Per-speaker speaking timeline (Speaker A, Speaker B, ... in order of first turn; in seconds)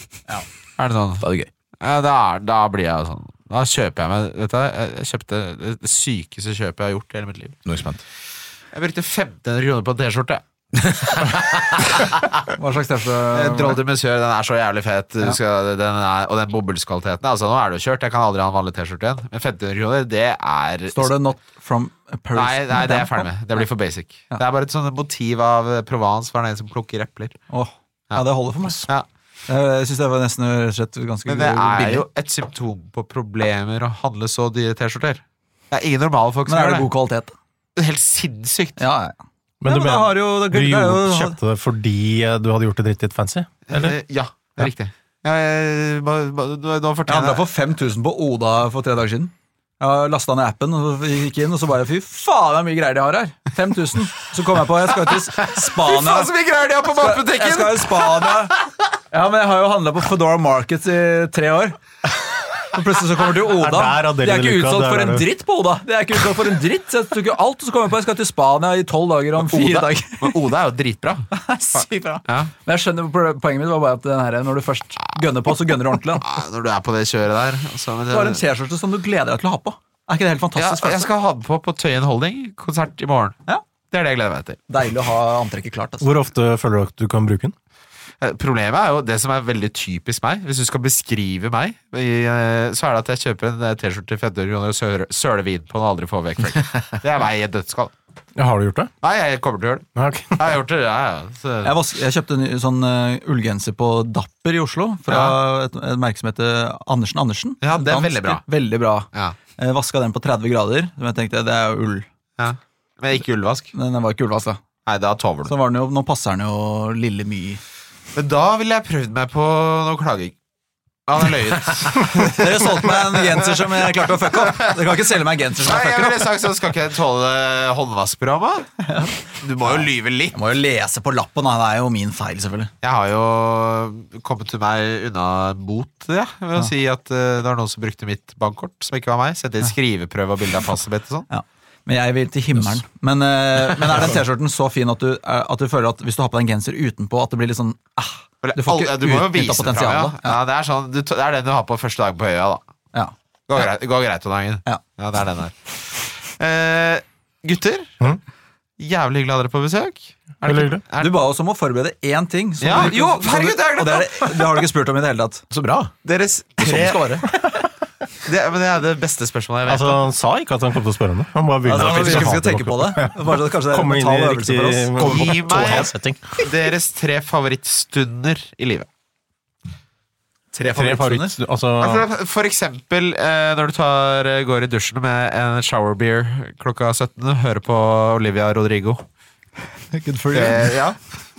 Speaker A: 0.8-1.2, 1.8-7.6, 8.7-10.4, 13.3-21.1, 22.3-27.4, 31.2-36.9, 37.8-38.8, 43.7-47.4, 55.3-58.4, 69.4-72.5, 76.2-78.4, 80.5-83.4, 83.9-84.6, 88.2-97.9, 99.0-101.7, 105.1-105.4, 107.6-108.4, 112.4-113.7, 114.8-115.5, 118.1-120.3, 121.1-124.8, 125.6-128.7, 129.4-130.3, 132.8-141.3, 148.4-152.6, 153.5-158.2, 158.8-161.1, 162.6-164.6, 166.0-167.3, 168.2-170.1, 174.9-178.9, 181.8-189.0, 190.3-191.0
Speaker B: 1.2-1.5, 7.6-8.0, 10.8-11.9, 165.5-165.9, 166.6-167.3
Speaker C: 12.5-13.8, 20.9-23.3, 27.5-28.9, 29.5-32.0, 36.5-37.3, 38.8-41.4, 47.1-56.3, 56.9-58.6, 59.1-61.8, 62.7-70.3, 71.3-76.3, 78.1-81.1, 84.7-86.1, 101.6-112.0, 113.7-114.6, 115.5-117.6, 122.2-126.2, 128.8-132.7, 141.3-150.4, 161.0-165.4, 171.6-175.9, 180.5-181.4, 189.9-190.8
Speaker D: 39.6-44.0, 63.5-65.2, 86.0-87.5, 98.4-98.9, 100.0-100.4, 160.4-160.8, 169.7-176.4, 180.7-182.1